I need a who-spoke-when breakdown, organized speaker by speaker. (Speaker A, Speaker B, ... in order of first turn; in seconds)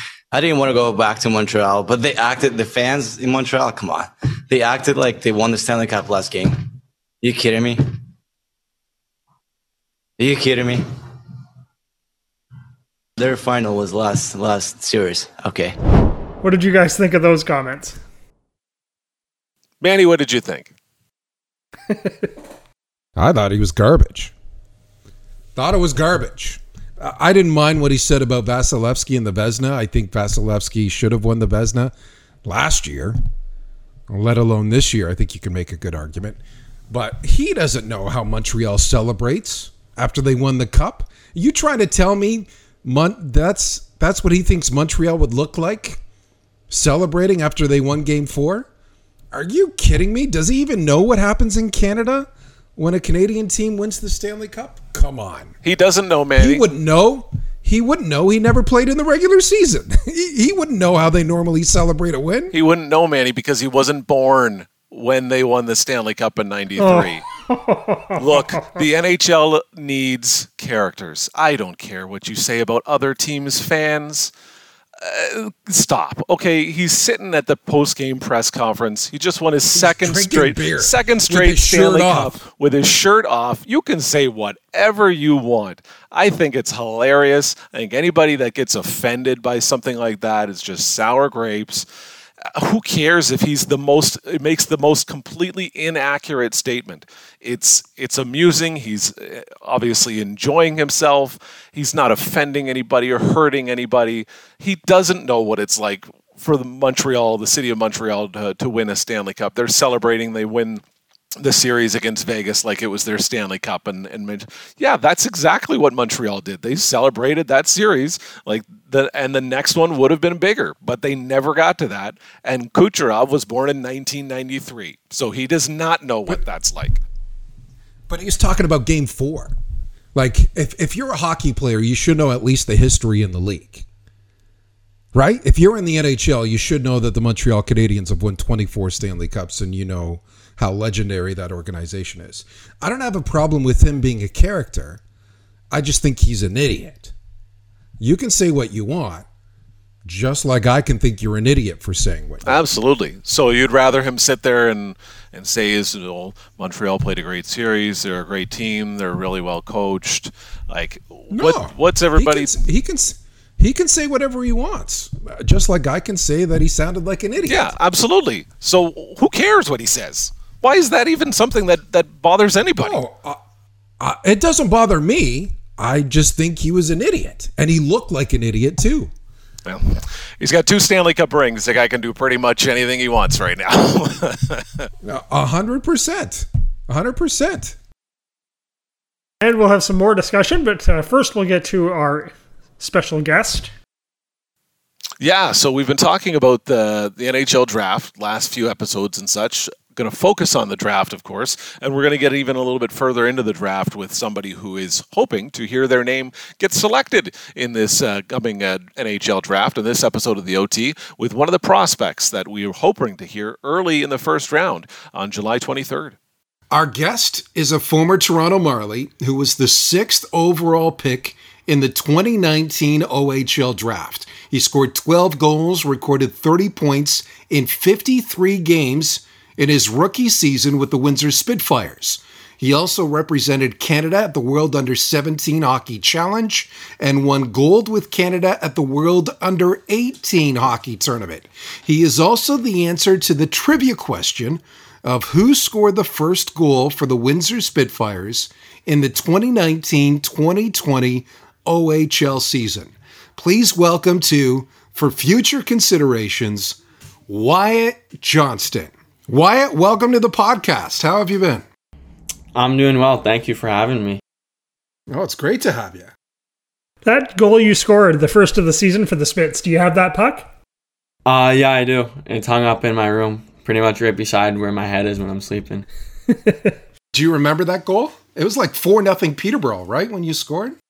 Speaker A: 0.3-7.8, 10.2-10.8, 13.2-15.8
Speaker B: 16.4-18.0, 21.9-22.3, 66.8-68.8, 189.4-193.7, 267.0-270.5, 276.3-276.8
Speaker C: 19.8-20.7, 55.6-56.6, 62.5-67.2, 68.2-74.3, 75.0-91.9, 92.5-110.8, 111.4-127.0, 152.4-162.6, 167.5-173.0, 179.7-184.9, 195.2-216.2
Speaker D: 23.2-24.3, 25.6-31.9, 32.5-33.2, 34.1-36.4, 36.9-46.0, 46.7-48.7, 49.3-55.5, 56.4-62.5, 79.7-82.4, 128.1-129.6, 130.1-133.8, 135.1-145.0, 145.7-147.1, 148.0-149.3, 150.1-152.6, 161.3-167.8, 172.8-173.4, 174.0-179.1, 185.0-187.8, 216.7-261.6, 265.1-266.1, 277.1-280.8
Speaker E: 262.6-264.2, 271.3-275.9